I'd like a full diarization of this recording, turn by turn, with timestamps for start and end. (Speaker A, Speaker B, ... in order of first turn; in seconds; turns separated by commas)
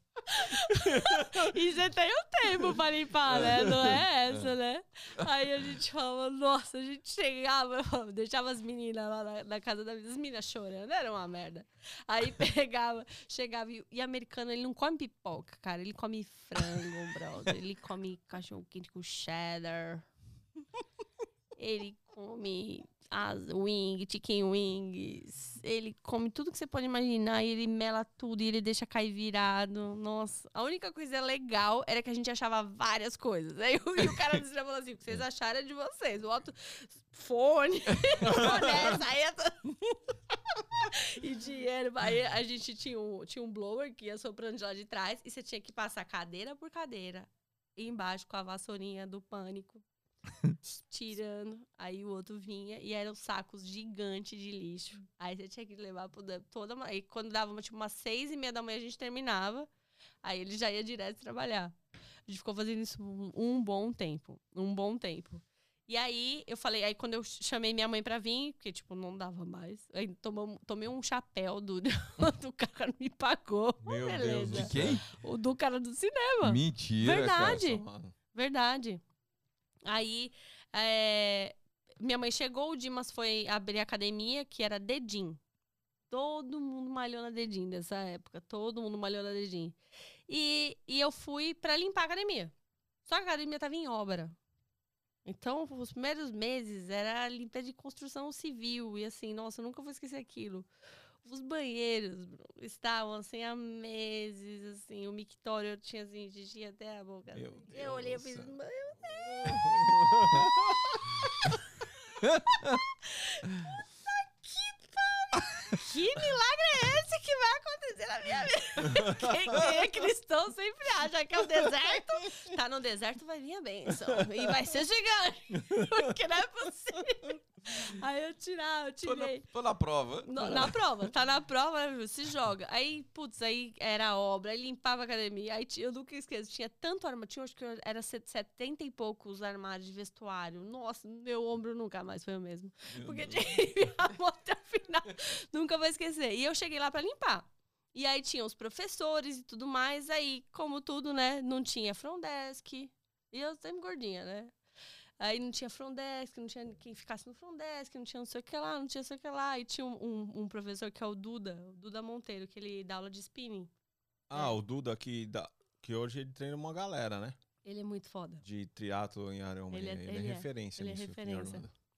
Speaker A: 0.3-20.1, Speaker B: 0.8-1.3, Speaker A: 21.6-39.9, Speaker B: 38.3-38.8, Speaker A: 40.8-49.8, Speaker A: 50.7-59.7, Speaker A: 60.2-61.8, Speaker A: 62.3-79.0, Speaker B: 73.8-75.0, Speaker C: 74.5-75.0, Speaker C: 76.4-77.6, Speaker B: 77.6-78.1, Speaker A: 79.8-85.4, Speaker A: 86.1-89.8, Speaker A: 90.3-92.5, Speaker A: 93.0-94.3, Speaker A: 95.2-100.7, Speaker A: 101.2-109.9, Speaker B: 107.3-108.5, Speaker B: 109.2-110.8, Speaker C: 112.2-112.7, Speaker A: 113.1-113.4, Speaker A: 114.1-129.4, Speaker C: 129.0-130.7, Speaker A: 130.2-154.5, Speaker B: 142.9-143.5, Speaker A: 155.2-163.7, Speaker B: 164.3-167.4, Speaker A: 167.6-168.4, Speaker B: 168.4-171.7, Speaker A: 169.7-171.6